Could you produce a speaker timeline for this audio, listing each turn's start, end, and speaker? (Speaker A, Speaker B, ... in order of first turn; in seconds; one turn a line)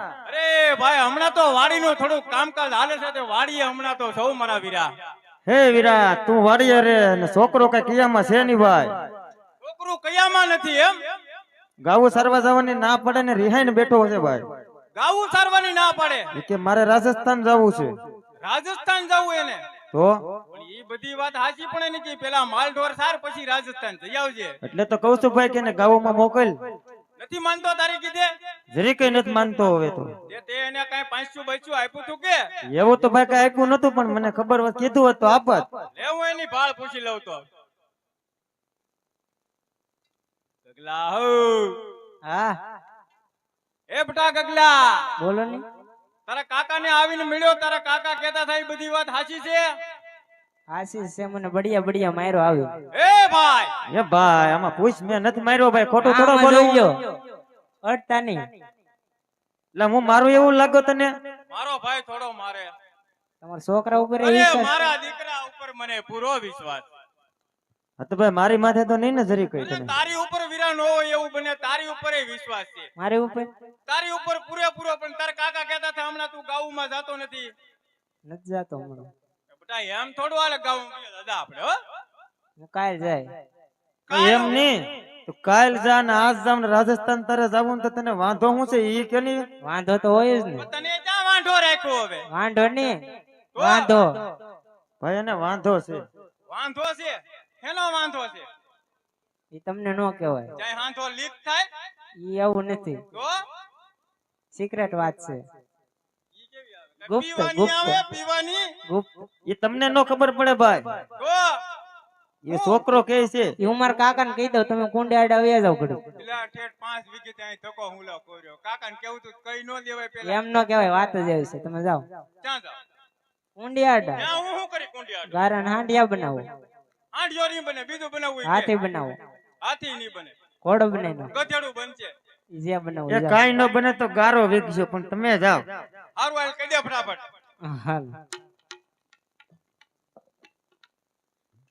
Speaker A: 0.2-4.9
Speaker B: 5.5-8.9
Speaker A: 9.6-10.9
Speaker B: 11.8-14.4
Speaker A: 14.9-16.3
Speaker B: 16.3-17.9
Speaker A: 18.4-19.6
Speaker B: 19.9-20.2
Speaker A: 20.5-24.6
Speaker B: 24.6-26.6
Speaker A: 27.2-28.3
Speaker B: 28.7-30.1
Speaker A: 30.3-32.4
Speaker B: 32.7-35.7
Speaker A: 36.0-37.4
Speaker A: 40.6-41.8
Speaker C: 42.2-42.5
Speaker A: 43.9-45.1
Speaker C: 45.2-45.6
Speaker A: 46.3-49.7
Speaker C: 50.7-52.7
Speaker A: 52.9-53.7
Speaker B: 53.9-56.9
Speaker C: 56.0-57.1
Speaker C: 57.8-58.5
Speaker B: 59.7-61.1
Speaker A: 61.5-62.7
Speaker C: 63.4-64.7
Speaker A: 64.2-66.8
Speaker B: 68.0-69.9
Speaker A: 69.6-72.9
Speaker C: 73.0-73.5
Speaker A: 73.9-77.5
Speaker C: 78.3-79.1
Speaker A: 79.5-81.7
Speaker C: 82.6-83.3
Speaker A: 84.1-84.6
Speaker B: 84.1-89.4
Speaker C: 89.6-90.7
Speaker A: 90.6-92.2
Speaker C: 92.3-92.9
Speaker A: 93.5-94.1
Speaker C: 93.6-94.2
Speaker B: 95.0-96.0
Speaker A: 96.5-98.5
Speaker C: 99.5-100.5
Speaker A: 100.6-101.7
Speaker C: 102.2-103.0
Speaker C: 104.5-105.4
Speaker A: 106.4-108.7
Speaker C: 107.1-108.0
Speaker B: 109.5-111.0
Speaker A: 111.2-111.6
Speaker B: 112.4-113.5
Speaker A: 112.5-112.8
Speaker C: 113.6-116.0
Speaker A: 116.2-120.4
Speaker C: 120.2-122.0
Speaker A: 122.4-122.8
Speaker C: 123.6-124.2
Speaker A: 124.2-125.3
Speaker C: 125.3-126.4
Speaker A: 127.1-128.7
Speaker C: 128.4-129.2
Speaker A: 129.6-130.3
Speaker C: 130.6-131.3
Speaker A: 131.3-132.1
Speaker C: 132.5-133.4
Speaker B: 133.1-135.7
Speaker A: 136.2-137.2
Speaker C: 137.6-138.2